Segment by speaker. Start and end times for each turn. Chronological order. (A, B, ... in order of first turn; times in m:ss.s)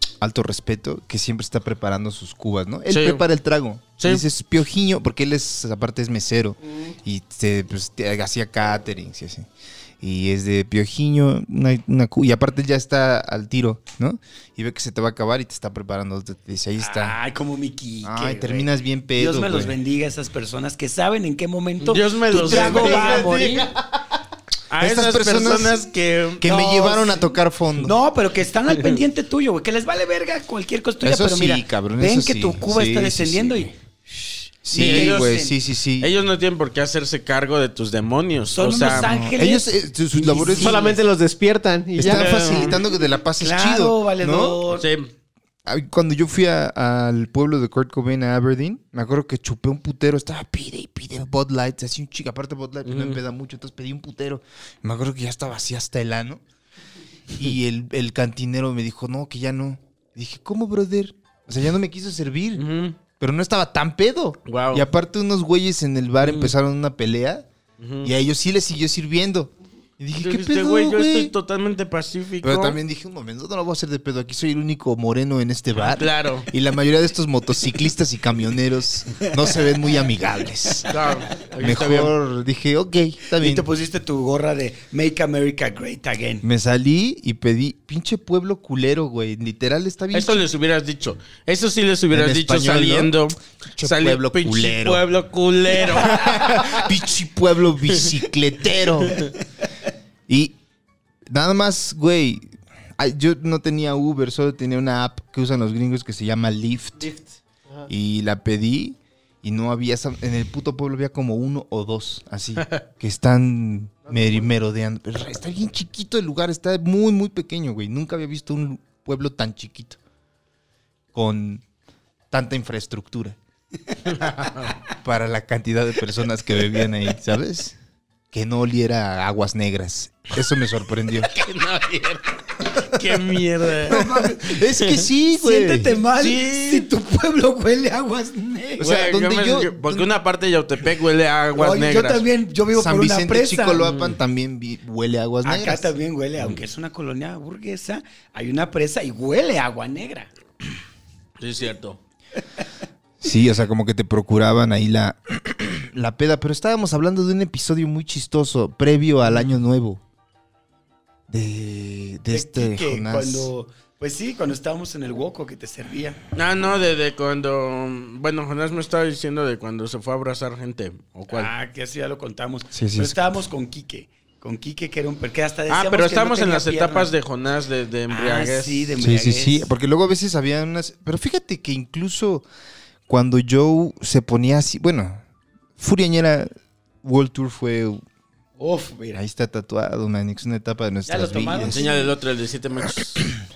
0:00.2-0:09.5 A
0:02.9-0:03.2 B
0:10.0-0:17.2 A
0:16.8-0:23.7 C
0:18.0-0:19.8 A
0:21.8-0:23.3 B
0:22.3-0:23.6 A
0:22.9-0:23.7 D
0:24.7-0:26.5 B
0:24.8-0:25.8 A
0:26.4-0:27.9 A
0:26.4-0:35.5 C
0:31.0-0:33.7 A
0:34.6-0:36.1 A
0:34.7-0:35.4 B
0:36.0-0:39.1 B
0:38.5-0:41.0 C
0:39.0-0:40.9 A
0:40.6-0:42.8 D
0:42.0-0:44.6 A
0:42.0-0:42.8 B
0:43.4-0:44.8 C
0:44.7-0:45.1 B
0:45.6-0:56.4 A
0:52.8-0:53.2 B
0:57.3-1:02.6 A
1:02.6-1:03.0 B
1:03.2-1:07.5 A
1:04.5-1:04.9 B
1:06.2-1:06.5 B
1:07.8-1:08.1 B
1:08.0-1:11.3 A
1:10.1-1:12.8 B
1:12.4-1:21.0 A
1:15.8-1:16.5 B
1:20.9-1:22.1 B
1:21.6-1:23.7 A
1:23.4-1:26.4 C
1:26.4-1:30.4 A
1:30.1-1:36.6 B
1:32.1-1:35.0 A
1:36.0-1:39.3 A
1:40.3-1:40.6 A
1:41.3-1:47.1 A
1:47.0-1:47.9 D
1:47.9-2:00.0 A
1:54.1-1:54.5 D
2:01.1-2:01.6 A
2:02.3-2:03.4 A
2:04.0-2:04.8 B
2:05.0-2:07.8 A
2:08.3-2:11.3 A
2:11.3-2:14.0 B
2:13.8-2:14.6 C
2:13.9-2:16.0 A
2:14.8-2:15.0 B
2:15.3-2:18.9 C
2:16.2-2:16.9 B
2:18.8-2:20.1 A
2:18.8-2:22.2 B
2:21.5-2:23.8 C
2:22.7-2:25.9 A
2:23.8-2:24.2 B
2:25.4-2:30.3 C
2:31.4-2:32.0 B
2:33.2-2:40.0 A
2:41.3-2:43.5 A
2:42.3-2:46.2 C
2:46.3-2:51.5 B
2:51.3-2:57.1 C
2:52.7-2:53.2 A
2:55.7-2:59.0 B
2:58.1-2:59.7 C
2:59.0-3:02.4 A
3:03.1-3:05.2 A
3:05.8-3:06.5 A
3:07.0-3:08.0 A
3:08.6-3:09.2 C
3:09.1-3:11.8 A
3:11.0-3:12.1 C
3:11.6-3:13.2 B